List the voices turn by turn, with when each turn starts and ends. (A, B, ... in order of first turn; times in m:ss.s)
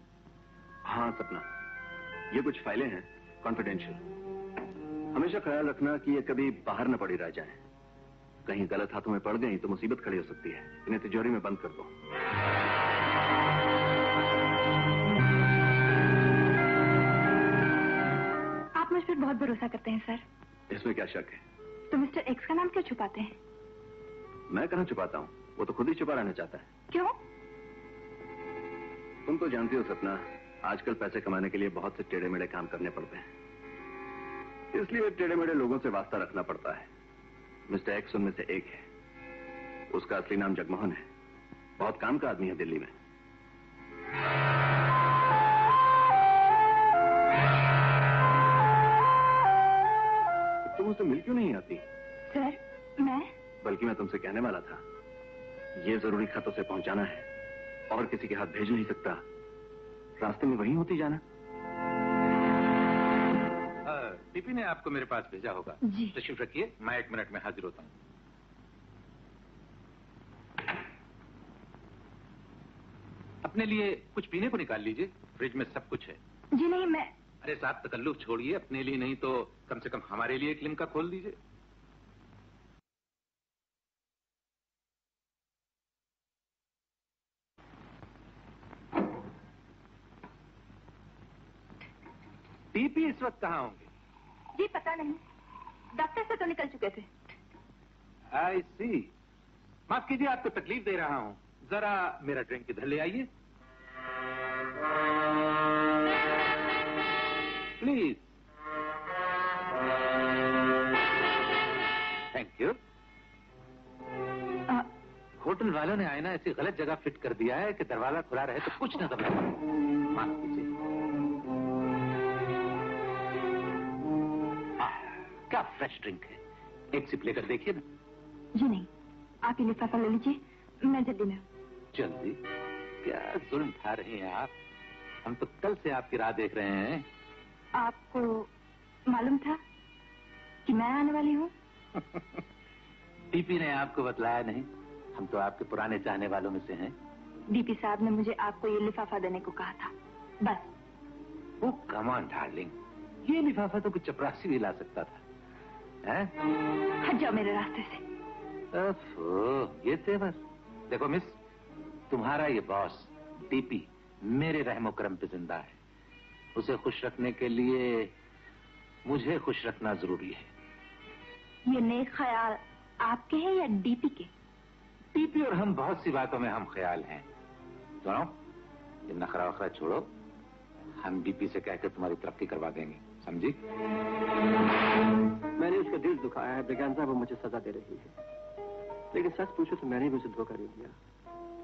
0:00.8-0:01.5 A
0:02.3-0:04.0 A
0:05.1-0:07.6 A
0:08.4-0:11.9 A
0:18.8-0:20.2 B
0:20.7-0:21.4 A
0:21.9-0:23.4 B
0:24.5-0:26.6 A
0:29.2-0:33.3 A
0:34.7-0:36.9 A
0:37.7-0:38.8 A
0:39.9-0:41.0 A
0:41.8-0:42.9 A
0:50.6-0:51.8 A
0:52.3-0:53.3 B
0:53.6-0:54.8 A
0:55.8-0:57.3 A
0:57.9-0:59.2 A
1:00.2-1:01.2 A
1:03.8-1:07.9 C
1:05.8-1:06.2 B
1:13.4-1:16.2 C
1:16.5-1:17.1 B
1:17.4-1:21.4 C
1:32.7-1:33.9 C
1:34.5-1:35.2 B
1:35.9-1:37.1 B
1:38.3-1:39.1 C
1:39.9-1:43.3 C
1:47.8-1:48.3 C
1:52.3-1:52.8 C
1:55.4-1:59.6 C
2:00.1-2:00.7 C
2:04.8-2:06.4 C
2:06.9-2:07.8 C
2:08.5-2:08.9 B
2:09.4-2:11.4 B
2:11.9-2:12.4 C
2:13.0-2:14.5 C
2:15.2-2:17.1 C
2:17.8-2:18.5 B
2:19.1-2:19.6 B
2:20.6-2:21.5 B
2:23.3-2:26.9 C
2:27.5-2:30.7 B
2:31.6-2:32.7 C
2:33.2-2:35.2 C
2:36.0-2:36.3 C
2:37.0-2:38.0 B
2:38.7-2:41.4 C
2:42.1-2:45.8 C
2:46.5-2:48.1 C
2:49.0-2:50.5 C
2:51.6-2:54.3 B
2:55.1-2:57.2 C
2:58.0-2:58.3 C
2:59.1-3:00.1 C
3:01.0-3:03.6 C
3:05.6-3:08.1 D
3:09.1-3:10.9 D